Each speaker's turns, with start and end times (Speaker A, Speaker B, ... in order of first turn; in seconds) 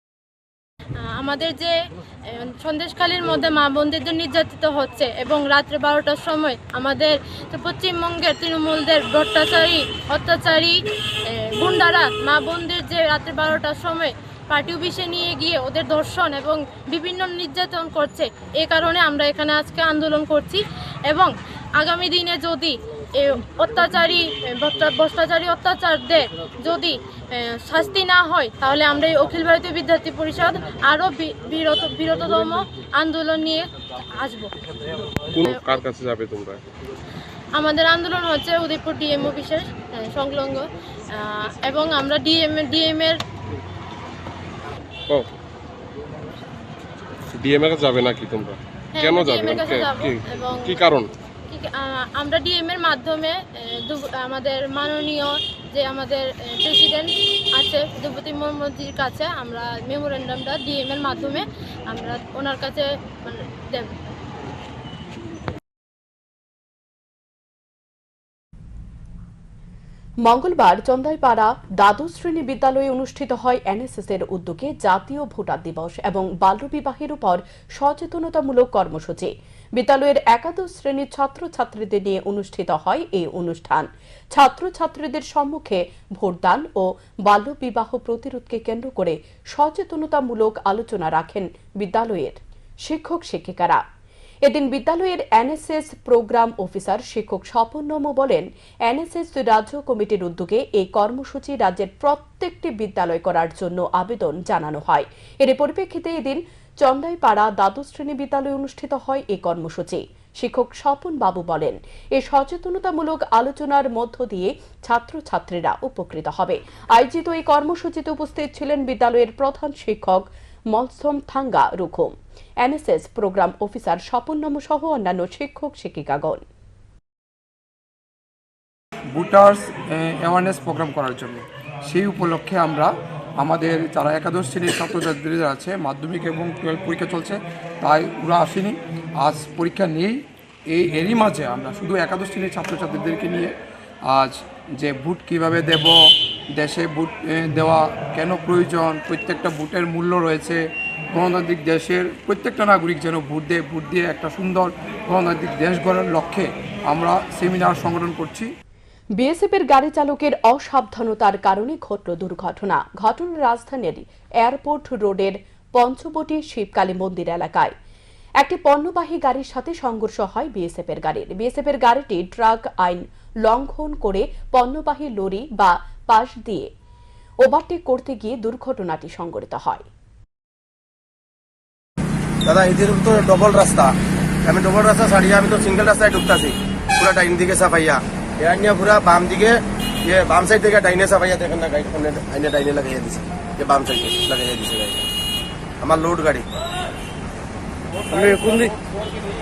Speaker A: 1.0-1.7, 2.3-33.7, 34.2-34.5, 35.4-35.8, 37.5-43.2, 49.0-50.9, 51.5-63.9
Speaker B: 35.4-36.6, 47.3-51.1
Speaker C: 70.2-93.8, 94.5-126.4, 159.2-167.7, 168.4-176.7, 177.4-179.9
Speaker D: 129.1-143.5, 144.1-150.6, 151.1-158.5
Speaker E: 182.4-195.1, 195.8-196.4, 198.1-198.7